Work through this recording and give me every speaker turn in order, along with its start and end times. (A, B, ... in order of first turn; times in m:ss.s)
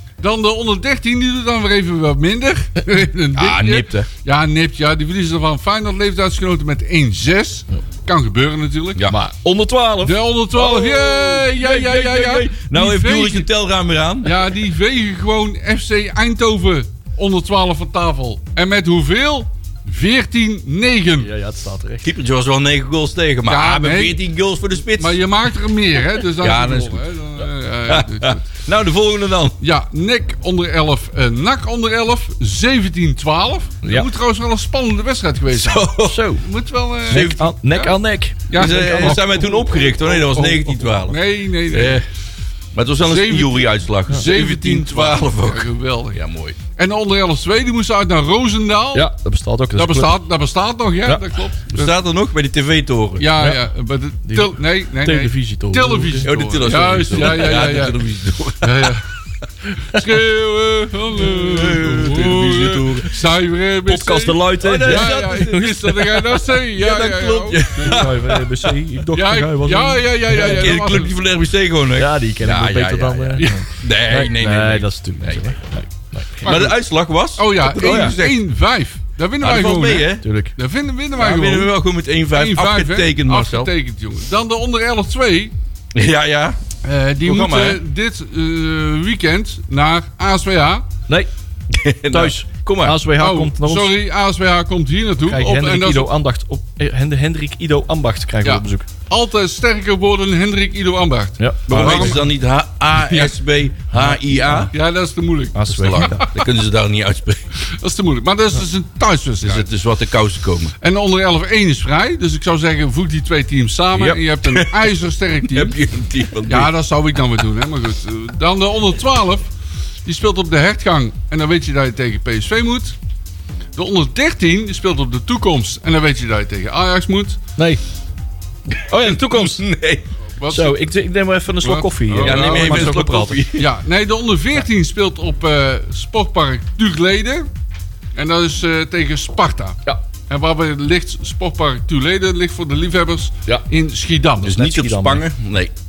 0:00.2-0:09.1 A
0:03.4-0:04.1 B
0:09.1-0:12.5 C
0:10.0-0:13.5 A
0:12.5-0:14.4 B
0:14.2-0:21.3 A
0:21.2-0:22.1 C
0:22.0-0:25.2 B
0:23.5-0:24.2 A
0:25.0-0:28.5 A
0:26.4-0:27.0 B
0:27.9-0:29.6 B
0:29.6-0:38.0 A
0:35.5-0:36.2 B
0:36.0-0:36.4 C
0:37.1-0:37.4 B
0:37.1-0:40.7 C
0:38.5-0:39.6 A
0:38.5-0:42.0 B
0:40.3-0:42.0 A
0:42.7-0:46.6 B
0:43.0-0:46.2 A
0:46.7-0:49.1 A
0:48.9-0:50.2 C
0:49.8-0:51.9 A
0:51.7-0:53.3 B
0:53.2-0:58.0 A
0:54.2-0:56.3 C
0:56.2-0:59.0 B
0:58.6-0:59.1 A
0:59.9-1:08.1 A
1:01.2-1:03.2 B
1:03.9-1:06.2 C
1:04.6-1:05.7 B
1:06.7-1:08.7 B
1:07.8-1:10.8 C
1:09.1-1:11.1 A
1:10.4-1:15.4 B
1:12.0-1:16.7 C
1:16.4-1:18.4 B
1:16.4-1:16.7 A
1:17.4-1:21.7 A
1:17.8-1:18.2 C
1:19.4-1:20.2 B
1:20.2-1:20.5 C
1:21.2-1:23.7 B
1:22.3-1:25.5 A
1:25.9-1:26.6 B
1:26.8-1:30.8 A
1:27.2-1:27.8 B
1:31.7-1:33.0 B
1:32.1-1:33.9 C
1:33.2-1:36.1 A
1:35.3-1:38.9 C
1:38.4-1:42.2 A
1:41.4-1:42.2 C
1:41.7-1:44.7 B
1:43.0-1:43.3 A
1:43.9-1:44.7 C
1:44.7-1:46.5 A
1:45.6-1:46.3 C
1:45.7-1:47.4 B
1:47.6-1:49.7 A
1:49.4-1:50.7 B
1:50.8-1:55.8 A
1:54.0-1:54.9 B
1:55.5-1:56.7 B
1:56.5-1:59.5 A
2:00.0-2:03.0 A
2:03.8-2:07.4 A
2:08.9-2:09.6 C
2:08.9-2:10.0 B
2:10.4-2:10.8 A
2:10.5-2:13.5 C
2:11.6-2:13.0 A
2:12.2-2:13.7 B
2:13.6-2:17.5 A
2:18.2-2:24.6 A
2:24.4-2:25.7 B
2:24.4-2:25.2 C